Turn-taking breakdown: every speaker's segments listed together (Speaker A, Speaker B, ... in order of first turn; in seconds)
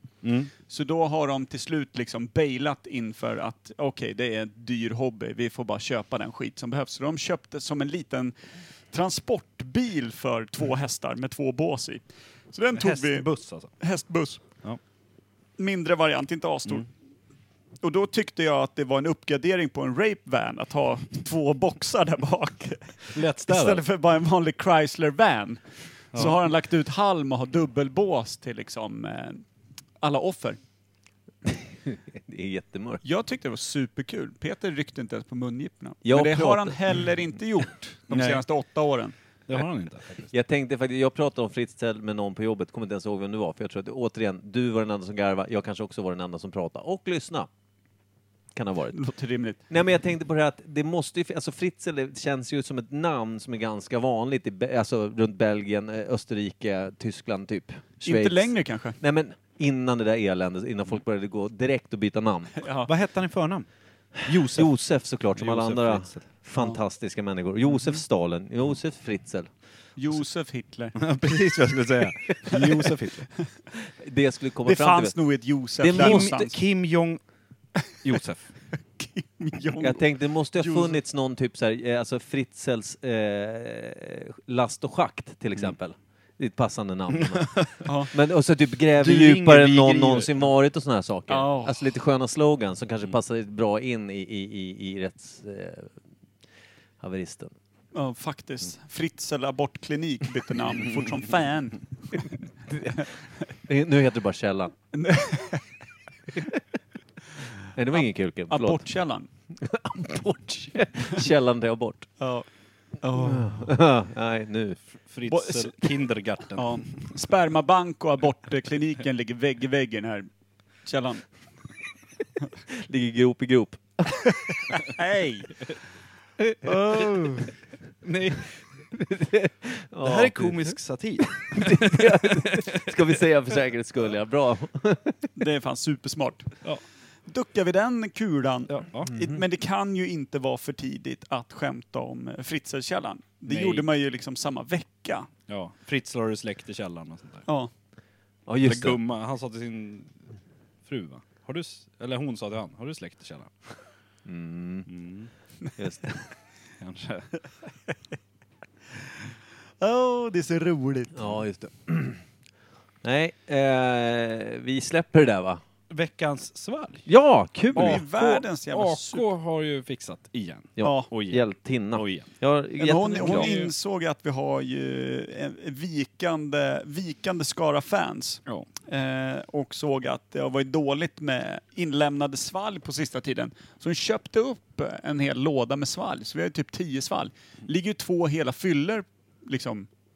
Speaker A: 0.2-0.5, 12.7-13.7, 23.1-23.8, 39.5-40.3, 62.9-63.7, 64.2-66.3, 71.0-73.3, 75.8-77.2, 78.0-78.5, 87.2-87.7, 89.0-90.3, 115.0-117.1, 126.7-127.3, 128.0-128.5, 130.0-132.9, 138.7-139.1, 143.5-143.8, 145.5-147.4, 148.6-150.2, 150.8-153.5, 154.9-155.3, 156.8-157.3, 165.9-167.1, 167.8-172.3, 173.2-173.7
Speaker B: 0.6-8.3, 8.9-14.4, 15.6-16.9, 17.8-29.4, 30.0-30.6, 33.0-39.1, 48.9-49.6, 58.0-59.0, 62.6-62.9, 70.0-71.0, 74.6-76.5, 79.0-80.0, 80.5-81.0, 87.8-88.1, 91.3-91.9, 97.9-102.4, 104.9-105.6, 107.9-109.3, 112.2-112.5, 113.0-113.7, 115.3-115.9, 116.5-120.3, 120.8-121.2, 124.7-125.6, 135.4-136.6, 137.3-145.3, 159.8-161.2, 167.7-169.3, 170.8-171.1, 172.8-189.9
Speaker C: 31.5-33.0, 36.0-36.8, 38.1-38.4, 40.3-47.5, 48.5-49.0, 49.7-62.5, 64.5-69.5, 74.0-75.1, 75.8-76.3, 79.8-96.0, 97.0-97.5, 102.7-103.0, 103.6-104.7, 107.7-108.8, 109.5-112.1, 113.1-114.8, 122.7-124.3, 126.4-127.5, 128.9-135.3, 139.1-139.4, 148.4-149.0, 154.2-154.9, 155.8-156.2, 161.1-162.2, 163.0-165.6, 167.1-168.1, 170.8-173.6